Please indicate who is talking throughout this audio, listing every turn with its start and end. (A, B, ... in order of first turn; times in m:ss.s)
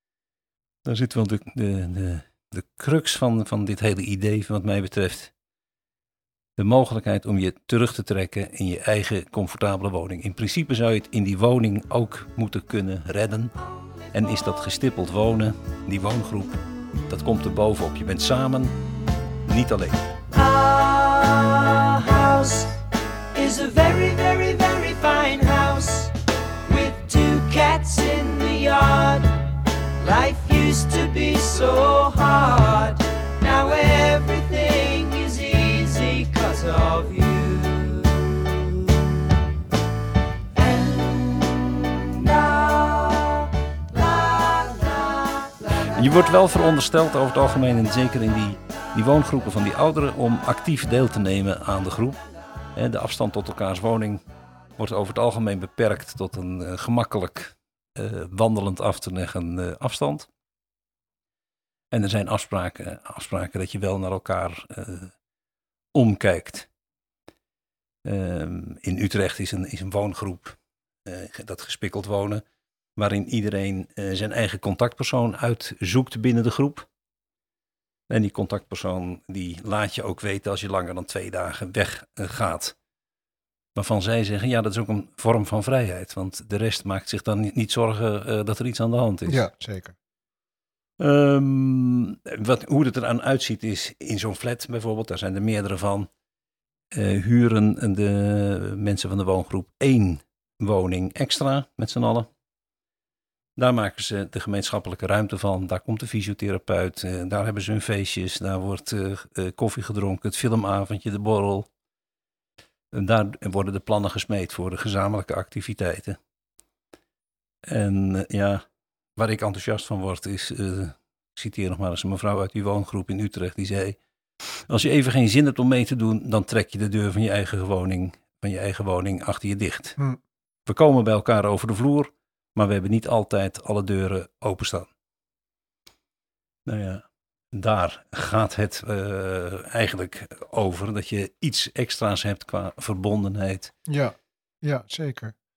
0:00.8-0:05.3 A
0:06.6-0:13.5 A
0:14.1-0:18.7 A
0:19.4-0:20.0 A
0:20.3-0:22.8 B
0:23.3-0:26.1 B
0:26.6-0:29.3 B
0:30.0-0:38.8 B
0:40.5-0:45.5 B
0:46.0-0:52.2 A
0:52.7-0:54.2 A
0:54.8-1:00.3 A
1:01.9-1:05.1 A
1:05.9-1:06.7 A
1:08.0-1:12.4 A
1:13.0-1:16.8 A
1:18.1-1:22.7 A
1:23.8-1:29.4 A
1:29.3-1:29.9 C
1:31.0-1:36.1 A
1:36.9-1:42.3 A
1:43.6-1:51.7 A
1:52.9-1:56.2 A
1:57.7-1:58.6 A
1:59.2-2:10.0 A
2:10.7-2:14.9 A
2:16.6-2:23.7 A
2:23.9-2:25.3 C